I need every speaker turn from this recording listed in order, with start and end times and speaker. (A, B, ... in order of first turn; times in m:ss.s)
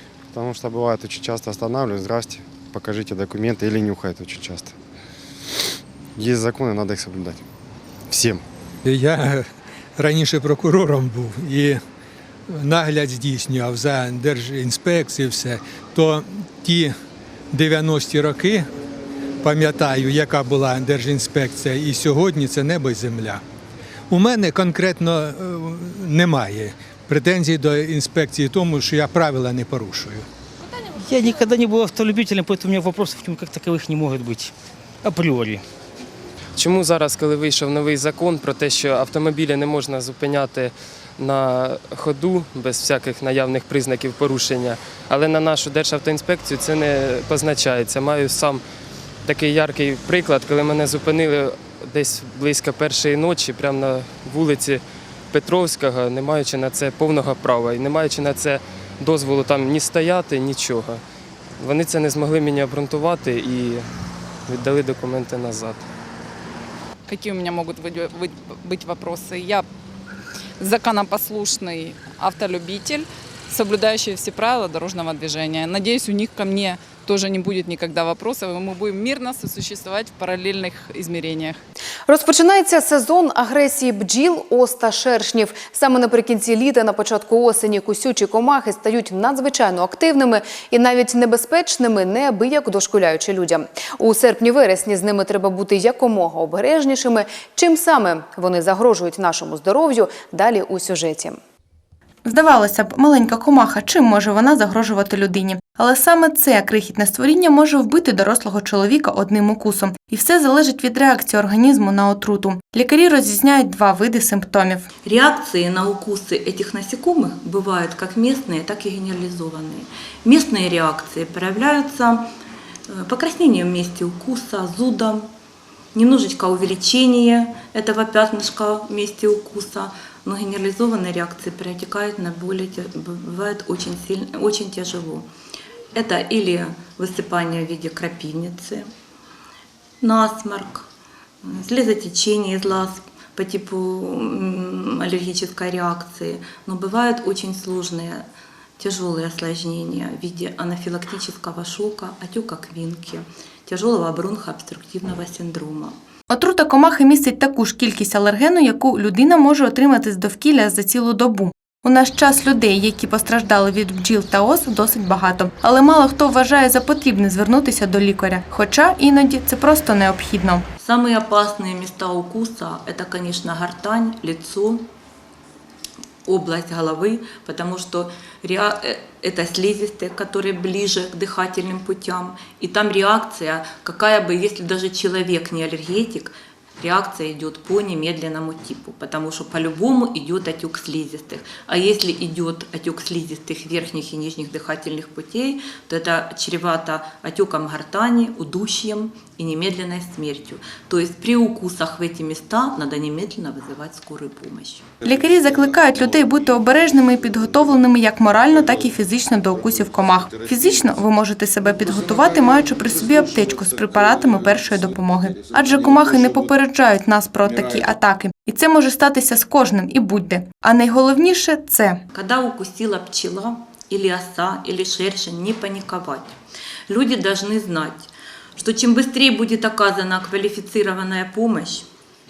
0:00.3-0:04.7 A
0:06.2-0:07.4 A
0:08.1-0:08.4 A
0:08.8-0:09.4 B
0:10.0-0:11.8 B
0:12.5-0:16.9 B
0:17.5-0:18.7 B
0:19.4-0:23.4 B
0:24.1-0:30.2 B
0:31.1-0:32.4 C
0:33.0-0:33.4 C
0:35.1-0:35.6 C
0:36.5-0:48.6 D
0:49.2-1:01.0 D
1:01.6-1:03.8 D
1:04.5-1:05.8 D
1:07.1-1:09.7 E
1:10.6-1:21.6 E
1:22.1-1:41.4 F
1:42.2-1:54.8 G
1:55.0-2:02.2 H
2:03.0-2:05.3 H
2:06.0-2:15.3 H
2:15.9-2:18.8 H
2:20.0-2:20.9 H
2:21.4-2:28.2 H
2:28.8-2:35.9 H
2:36.3-2:50.6 G
2:50.8-2:54.9 H
2:56.3-3:24.9 H
3:25.0-3:42.0 G
3:42.1-3:46.3 H
3:46.9-3:51.8 H